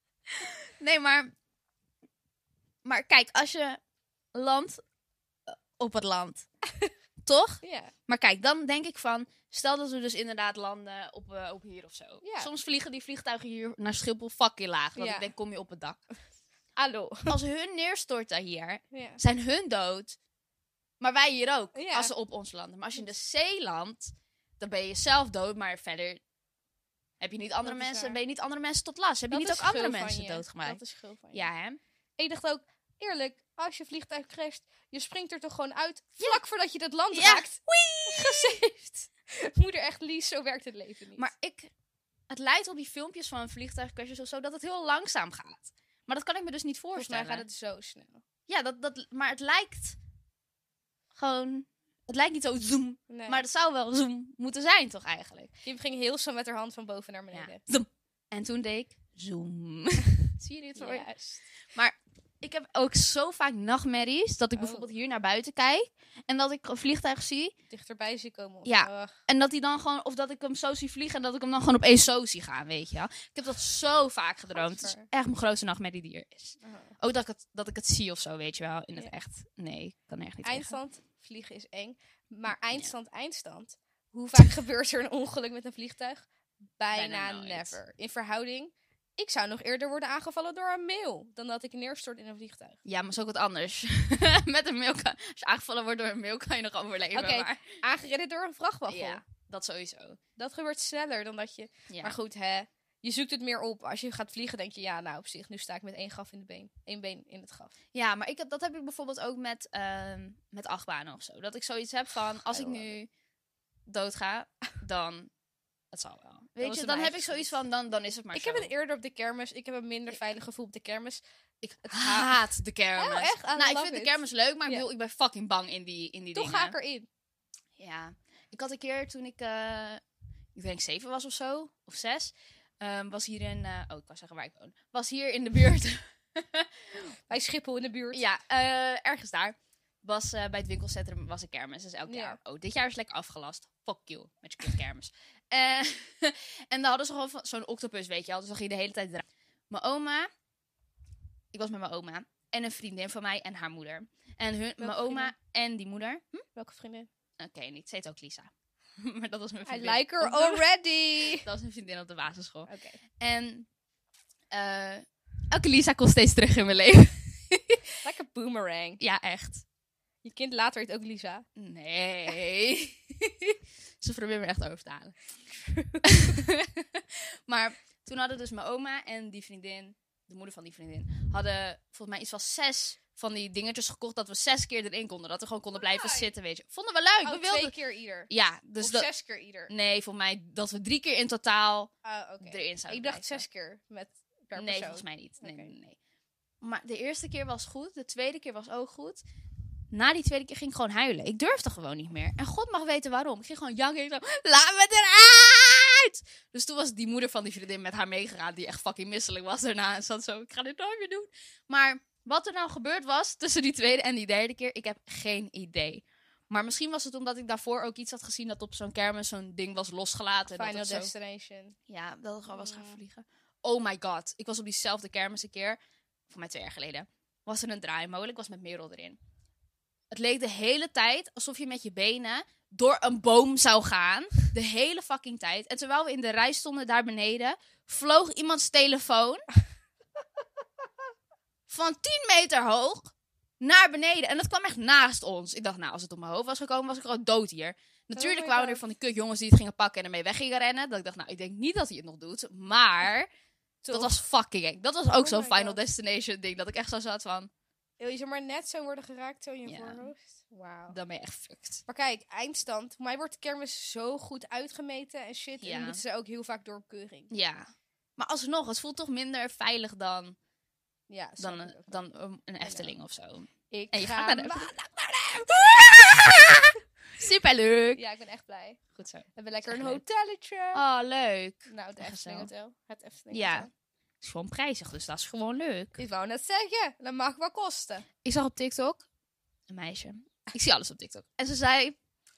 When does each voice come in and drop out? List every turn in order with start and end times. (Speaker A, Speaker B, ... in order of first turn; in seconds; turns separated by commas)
Speaker A: 0.3-1.3, Speaker A: 2.8-3.8, Speaker A: 4.3-4.8, Speaker A: 5.5-6.5, Speaker A: 7.2-16.0, Speaker B: 7.6-7.9, Speaker B: 12.2-12.5, Speaker B: 14.9-15.3, Speaker B: 16.8-17.4, Speaker A: 17.3-20.2, Speaker B: 18.9-19.2, Speaker A: 21.0-26.2, Speaker B: 21.7-22.1, Speaker A: 27.2-30.8, Speaker B: 27.6-28.2, Speaker B: 29.3-31.4, Speaker A: 31.3-31.8, Speaker B: 32.2-41.3, Speaker A: 37.1-38.6, Speaker A: 41.2-41.7, Speaker A: 42.3-47.5, Speaker B: 46.9-48.2, Speaker A: 48.5-50.0, Speaker A: 51.1-55.5, Speaker B: 53.1-53.4, Speaker B: 55.6-57.6, Speaker A: 57.3-61.1, Speaker B: 60.8-61.4, Speaker A: 61.7-67.5, Speaker B: 64.5-64.9, Speaker B: 67.7-69.1, Speaker A: 68.6-80.8, Speaker B: 74.5-75.1, Speaker B: 76.6-76.9, Speaker B: 80.4-92.8, Speaker A: 86.9-87.8, Speaker A: 92.8-97.7, Speaker B: 97.1-99.2, Speaker A: 98.9-100.2, Speaker B: 100.4-107.7, Speaker A: 101.9-102.2, Speaker A: 107.9-113.1, Speaker B: 112.5-112.9, Speaker A: 113.9-115.3, Speaker A: 115.9-118.7, Speaker B: 116.6-117.5, Speaker B: 118.3-121.2, Speaker A: 121.6-126.7, Speaker B: 121.8-124.8, Speaker B: 126.3-127.1, Speaker A: 127.8-130.0, Speaker A: 130.5-137.2, Speaker B: 137.3-138.2, Speaker A: 138.1-150.3, Speaker B: 142.1-142.4, Speaker A: 151.5-156.4, Speaker B: 154.8-155.3, Speaker B: 156.6-157.1, Speaker A: 157.4-160.7, Speaker B: 159.7-161.5, Speaker A: 161.2-163.7, Speaker B: 162.7-163.0, Speaker A: 164.5-167.8, Speaker B: 168.0-169.0, Speaker A: 169.0-169.6, Speaker B: 170.2-171.4, Speaker A: 171.6-175.2, Speaker B: 175.6-176.3, Speaker A: 176.0-187.7, Speaker B: 185.8-186.3, Speaker B: 187.2-189.7, Speaker A: 188.3-189.1, Speaker A: 189.7-193.4, Speaker B: 192.0-195.7, Speaker A: 194.6-196.0, Speaker A: 196.6-199.2, Speaker A: 199.9-221.1, Speaker B: 220.5-221.8, Speaker A: 221.9-225.8, Speaker B: 222.5-223.0, Speaker A: 226.3-229.2, Speaker A: 230.1-239.4, Speaker A: 241.7-253.3, Speaker B: 248.1-248.8, Speaker B: 253.8-254.2, Speaker A: 253.9-257.5, Speaker B: 255.1-255.8, Speaker B: 258.0-261.0, Speaker A: 259.6-260.1, Speaker A: 260.9-261.8, Speaker B: 261.9-267.3, Speaker A: 265.6-266.0, Speaker A: 267.3-270.4, Speaker B: 271.1-272.0, Speaker A: 271.4-278.0, Speaker B: 272.6-272.9, Speaker B: 273.7-274.7, Speaker B: 277.9-278.8, Speaker A: 278.9-280.0, Speaker B: 279.3-280.8, Speaker A: 280.7-282.5, Speaker B: 281.7-283.7, Speaker A: 283.3-283.7, Speaker A: 284.2-286.0, Speaker B: 286.0-288.1, Speaker A: 288.2-289.0, Speaker A: 289.7-292.0